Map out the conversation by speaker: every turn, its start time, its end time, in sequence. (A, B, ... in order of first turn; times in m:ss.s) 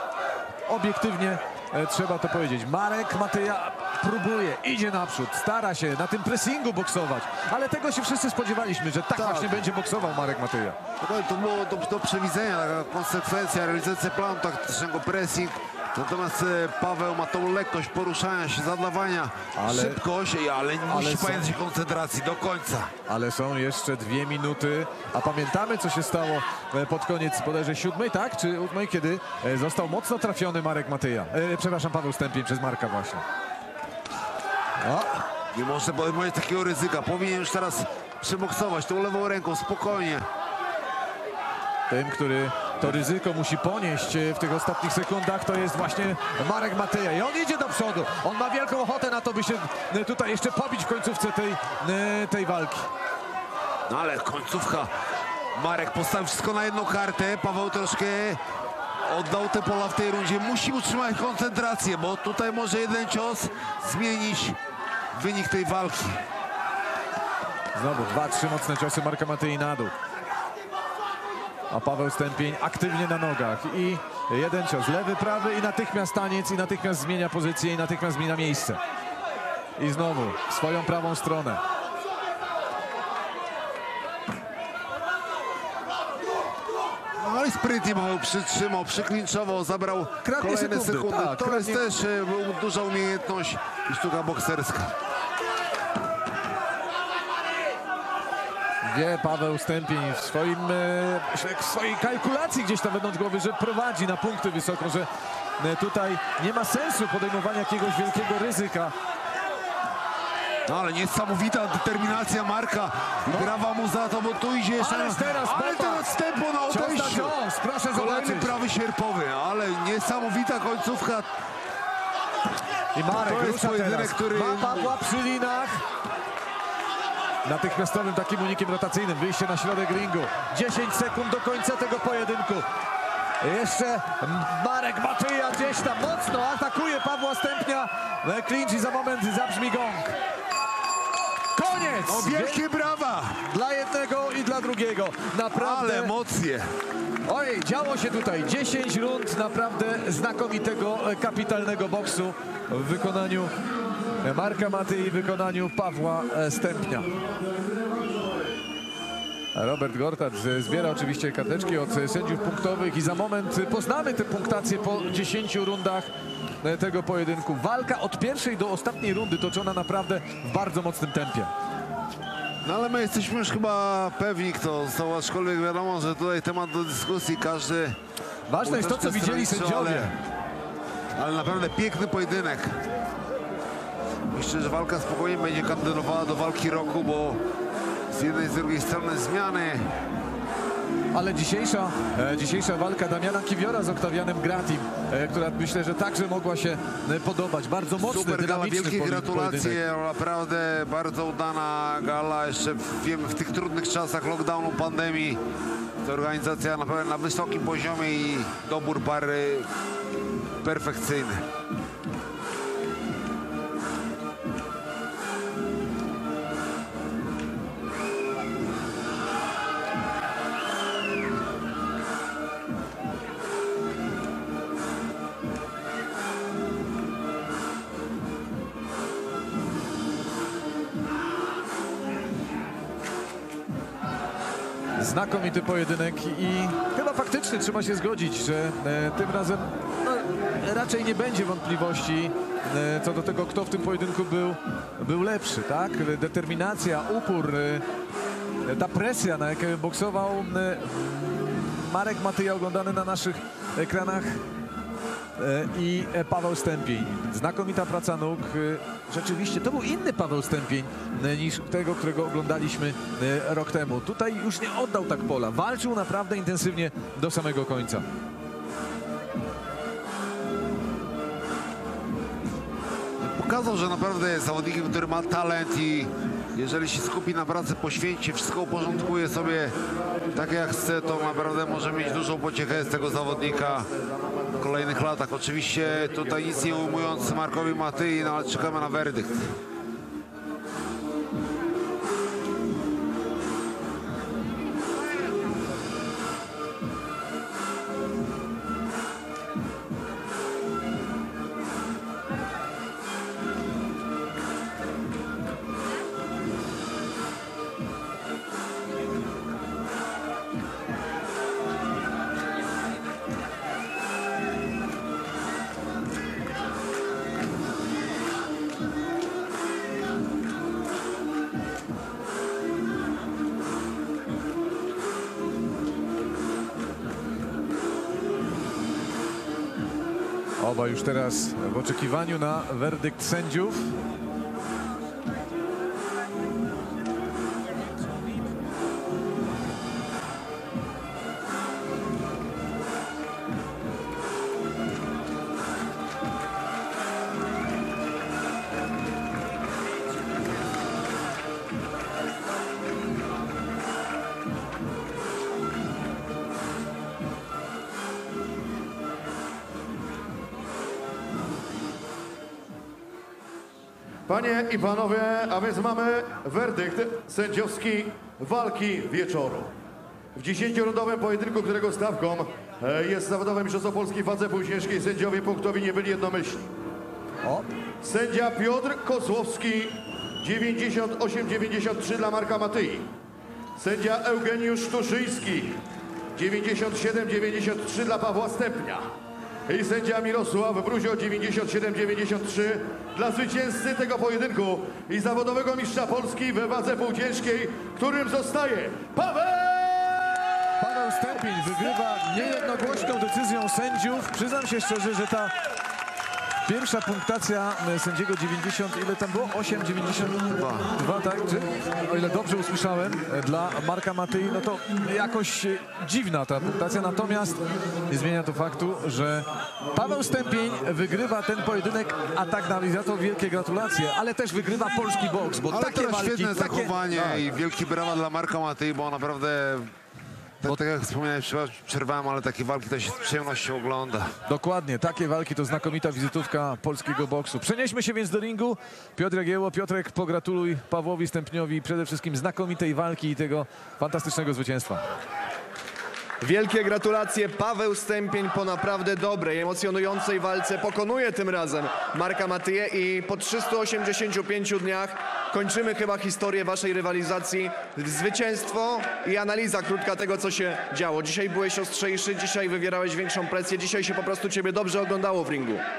0:00.7-0:10.8 A
0:09.1-0:09.6 B
0:11.0-0:22.9 B
0:19.5-0:20.0 A
0:20.9-0:21.5 A
0:23.1-0:33.2 A
0:34.8-0:35.2 A
0:35.5-0:40.3 B
0:41.9-0:52.9 A
0:53.9-0:54.9 B
0:55.5-0:58.4 B
0:59.0-1:04.6 B
1:05.1-1:06.2 B
1:07.7-1:09.9 A
1:11.7-1:18.8 A
1:19.8-1:21.6 A
1:27.2-1:34.9 B
1:30.2-1:31.8 A
1:38.8-1:45.1 A
1:45.6-1:48.9 A
1:50.7-1:57.4 B
1:53.3-1:53.5 A
1:54.8-1:56.1 A
1:56.7-1:58.5 A
1:57.9-2:01.3 B
2:02.9-2:05.8 A
2:03.1-2:04.9 B
2:07.4-2:12.6 A
2:13.4-2:20.1 A
2:21.6-2:22.6 A
2:22.1-2:23.4 B
2:23.4-2:26.1 A
2:25.5-2:26.7 B
2:27.3-2:33.5 A
2:34.2-2:37.1 A
2:39.6-2:46.1 A
2:46.6-2:51.5 A
2:52.6-2:58.0 B
2:58.5-3:00.1 A
2:58.6-3:00.1 B
3:01.2-3:02.8 B
3:04.3-3:07.4 B
3:08.1-3:09.9 B
3:11.1-3:19.8 A
3:18.0-3:25.4 B
3:26.0-3:29.7 B
3:30.6-3:31.4 B
3:55.0-4:07.8 A
4:08.6-4:14.4 A
4:15.4-4:28.0 A
4:33.2-4:39.7 B
4:40.3-4:43.9 B
4:44.6-4:49.6 B
5:30.6-5:33.9 A
6:04.3-6:09.7 C
6:10.3-6:16.7 C
6:18.0-6:23.1 C
6:23.8-6:25.8 C
6:26.4-6:29.1 C
6:29.7-6:40.3 C
6:40.8-6:45.5 A
6:46.6-7:07.4 A
6:50.5-6:50.9 B
7:05.7-7:09.9 B
7:10.6-7:14.3 B
7:14.5-7:25.0 A
7:26.4-7:45.8 D